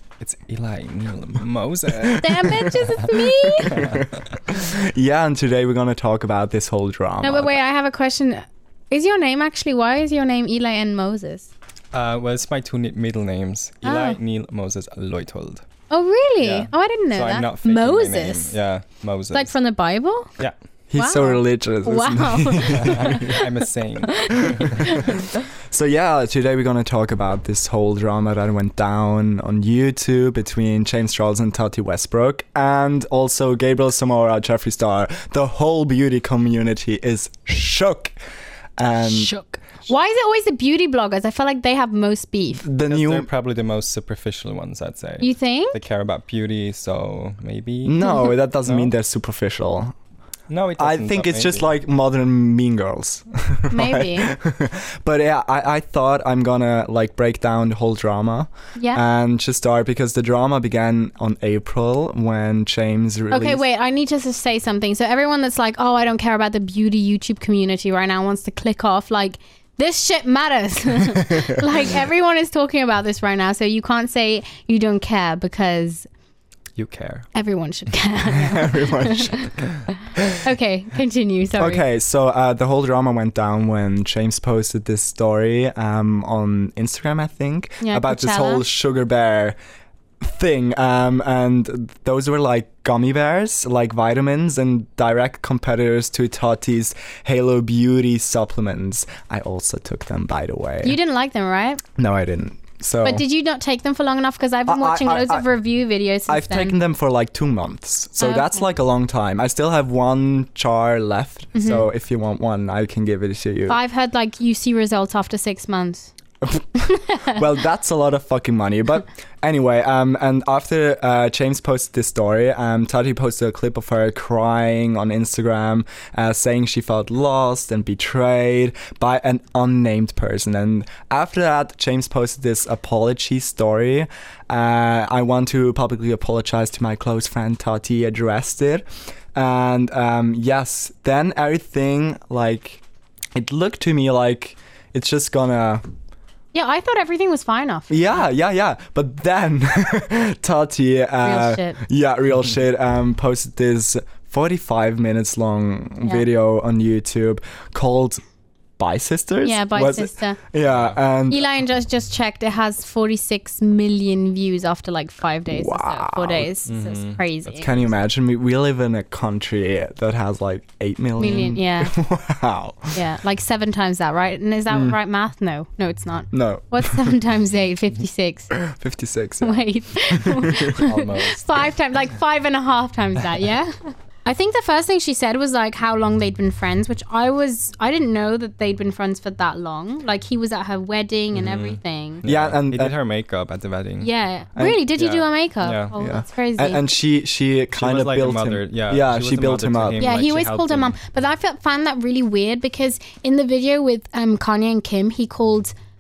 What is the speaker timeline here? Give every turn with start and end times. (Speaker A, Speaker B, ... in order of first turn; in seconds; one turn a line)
Speaker A: 0.2-2.7
Speaker B: 1.9-3.0
Speaker C: 2.2-4.0
Speaker B: 3.6-7.6
Speaker A: 3.7-4.2
Speaker C: 7.2-11.5
Speaker A: 11.9-15.6
Speaker C: 13.8-14.2
Speaker C: 15.9-18.6
Speaker A: 16.4-19.5
Speaker C: 19.3-20.3
Speaker B: 20.9-23.4
Speaker C: 21.0-23.5
Speaker A: 22.7-24.9
Speaker C: 24.1-25.4
Speaker B: 24.4-24.9
Speaker B: 25.7-38.1
Speaker B: 38.8-39.3
Speaker C: 39.0-42.6
Speaker B: 42.6-43.3
Speaker A: 42.9-48.0
Speaker C: 45.2-45.8
Speaker B: 47.9-50.0
Speaker C: 48.0-48.3
Speaker A: 48.6-48.9
Speaker A: 50.5-51.6
Speaker B: 50.8-63.6
Speaker C: 53.7-54.3
Speaker C: 58.8-59.0
Speaker C: 63.3-76.1
Speaker A: 76.8-77.3
Speaker C: 77.3-79.5
Speaker B: 78.5-79.5
Speaker C: 80.3-81.8
Speaker B: 81.6-89.6
Speaker C: 87.8-88.6
Speaker B: 90.2-101.0
Speaker C: 100.8-101.8
Speaker B: 102.0-103.2
Speaker C: 103.0-106.7
Speaker B: 104.7-105.5
Speaker B: 106.3-113.8
Speaker C: 108.2-108.7
Speaker C: 111.5-111.9
Speaker C: 113.7-116.1
Speaker C: 116.8-117.4
Speaker B: 117.2-142.8
Speaker B: 143.4-145.8
Speaker C: 146.5-148.3
Speaker B: 147.9-158.2
Speaker C: 151.2-151.8
Speaker B: 158.8-161.5
Speaker C: 159.4-160.4
Speaker A: 160.7-161.0
Speaker C: 161.3-167.8
Speaker B: 165.5-166.5
Speaker A: 166.7-167.5
Speaker B: 167.6-173.0
Speaker C: 171.2-171.9
Speaker C: 172.9-178.5
Speaker B: 174.7-175.0
Speaker B: 176.3-177.0
Speaker B: 178.5-180.8
Speaker C: 179.4-192.2
Speaker A: 180.7-181.7
Speaker A: 191.3-194.1
Speaker B: 192.2-192.9
Speaker C: 194.0-196.9
Speaker A: 195.0-195.9
Speaker B: 196.0-200.0
Speaker A: 197.7-201.0
Speaker C: 200.0-205.7